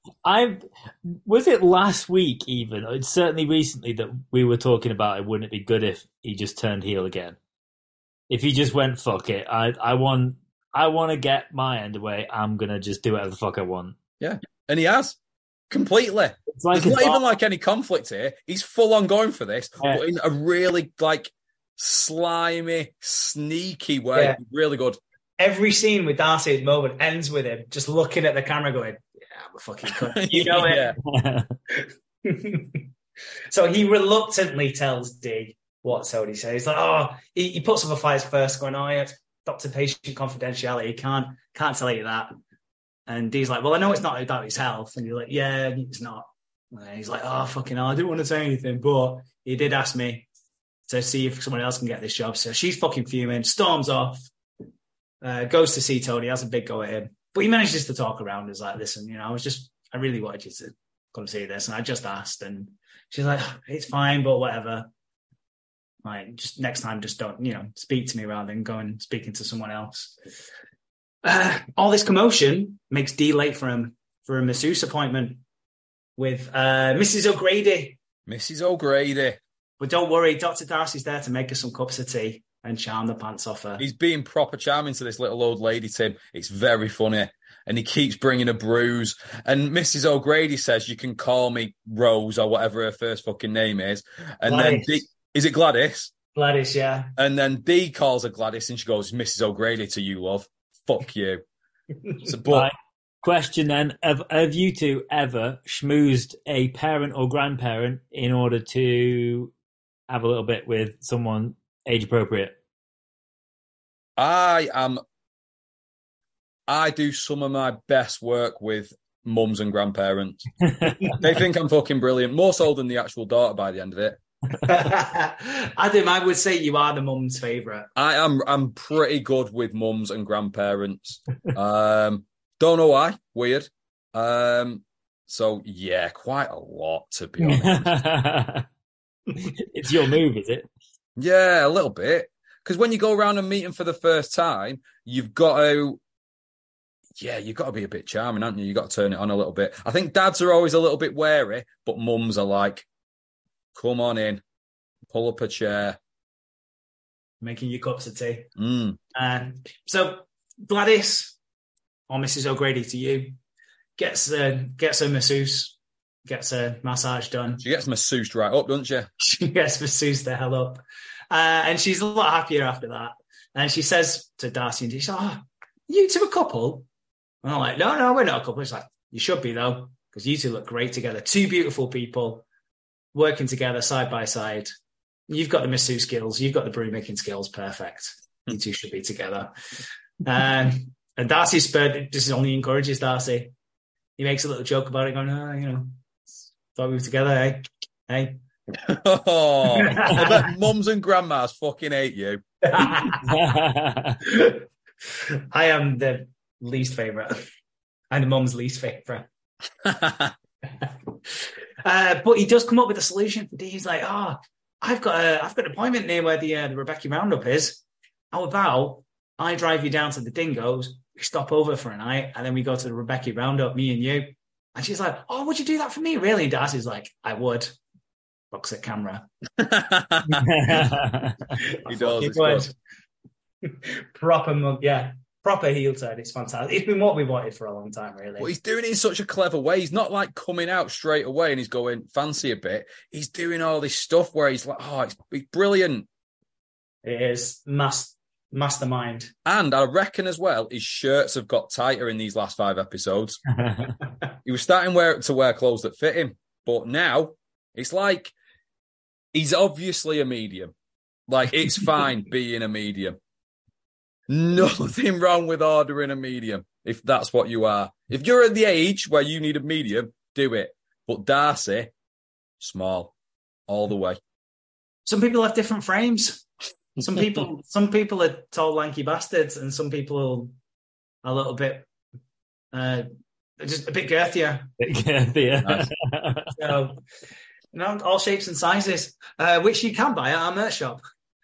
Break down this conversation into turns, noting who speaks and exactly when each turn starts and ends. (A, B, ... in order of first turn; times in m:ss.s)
0:00.2-0:07.4 A
0:08.3-0:14.0 A
0:14.2-0:15.2 B
0:15.7-0:25.0 B
0:16.5-0:17.2 A
0:25.4-0:30.9 C
0:29.8-0:31.0 B
0:31.1-0:31.5 A
0:32.2-0:32.8 C
0:33.5-0:42.3 C
0:43.1-0:50.3 C
0:50.9-0:54.3 C
0:55.2-1:04.9 C
1:06.0-1:10.2 C
1:11.2-1:15.4 C
1:16.2-1:18.0 C
1:18.3-1:19.4 B
1:19.8-1:23.8 C
1:23.8-1:36.1 B
1:34.4-1:35.1 C
1:36.3-1:37.1 C
1:37.2-1:41.4 B
1:42.2-1:42.7 B
1:42.5-1:49.5 A
1:50.1-1:52.6 A
1:54.2-1:55.0 B
1:56.7-2:00.5 B
2:01.1-2:04.2 B
2:04.6-2:07.9 C
2:07.9-2:17.9 B
2:17.4-2:18.6 A
2:19.4-2:20.7 A
2:21.2-2:26.0 B
2:27.2-2:32.8 B
2:33.7-2:34.4 B
2:35.1-2:36.0 B
2:37.4-2:38.5 C
2:38.6-2:39.0 B
2:39.1-2:41.4 C
2:42.1-2:43.4 C
2:44.0-2:47.6 C
2:47.6-2:49.1 B
2:49.2-2:56.9 C
2:57.4-3:02.4 C
3:03.1-3:04.7 C
3:05.3-3:09.5 C
3:10.2-3:13.5 C
3:14.2-3:15.9 C
3:16.7-3:18.4 C
3:18.8-3:22.4 B
3:19.8-3:20.4 C
3:22.7-3:23.2 C
3:23.2-3:24.2 A
3:24.2-3:27.3 C
3:28.1-3:29.3 C
3:29.8-3:30.3 B
3:30.8-3:47.7 C
3:48.5-3:49.3 C
3:49.6-3:50.5 B
3:50.4-3:51.4 A
3:51.6-3:52.7 C
3:51.8-3:52.7 B
3:53.6-3:58.5 C
3:58.4-4:06.1 B
4:07.0-4:09.3 C
4:09.4-4:13.4 B
4:13.6-4:13.9 A
4:14.4-4:18.3 B
4:19.3-4:20.7 B
4:21.3-4:23.2 B
4:24.3-4:31.9 B
4:32.6-4:33.1 B
4:33.7-4:34.2 B
4:35.0-4:36.4 C
4:37.0-4:40.5 C
4:41.2-4:41.8 C
4:42.7-4:43.0 C
4:43.6-4:44.7 C
4:44.8-4:46.5 A
4:45.6-4:45.9 B
4:46.5-4:47.0 C
4:47.7-4:51.0 C